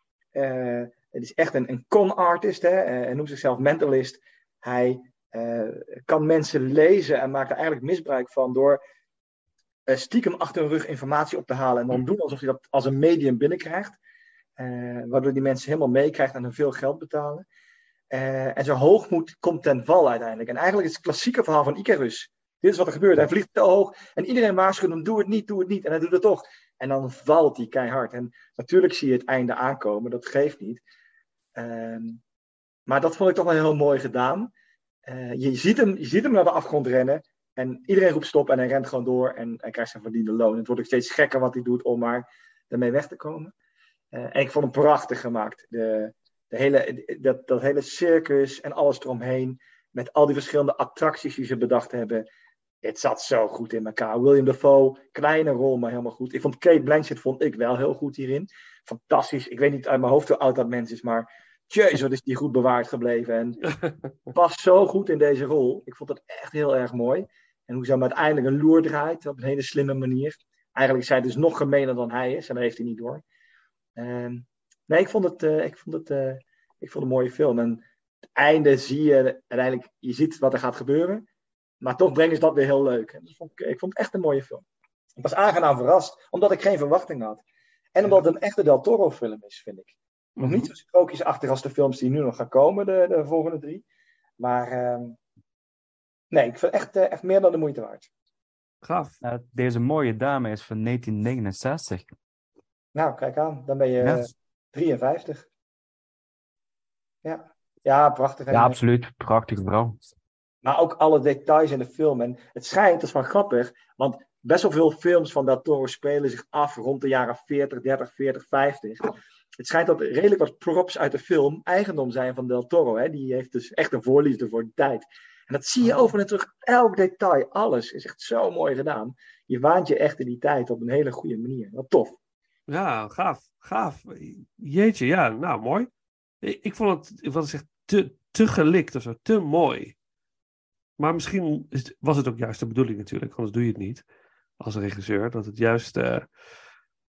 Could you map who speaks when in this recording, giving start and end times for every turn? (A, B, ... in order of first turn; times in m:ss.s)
0:00.4-0:08.8 A
0:09.9-0:14.0 A
0:14.6-0:17.4 A
0:18.1-0:30.8 A
0:31.6-0:32.2 A
0:32.9-0:34.5 A
0:35.1-0:43.5 A
0:44.1-0:52.3 A
0:52.8-1:03.6 A
1:04.3-1:13.2 A
1:14.0-1:17.8 A
1:18.4-1:21.3 A
1:21.8-1:24.6 A
1:25.2-1:27.4 A
1:28.0-1:33.8 A
1:30.4-1:30.7 B
1:34.4-1:35.2 A
1:36.3-1:38.1 A
1:38.8-1:39.2 B
1:39.2-1:42.1 C
1:43.0-1:45.5 A
1:44.0-1:44.3 C
1:47.2-1:48.8 A
1:48.5-1:50.0 C
1:50.6-2:12.2 A
2:05.8-2:06.1 B
2:12.7-2:15.9 B
2:16.4-2:20.0 B
2:21.0-2:24.0 B
2:24.6-2:26.3 B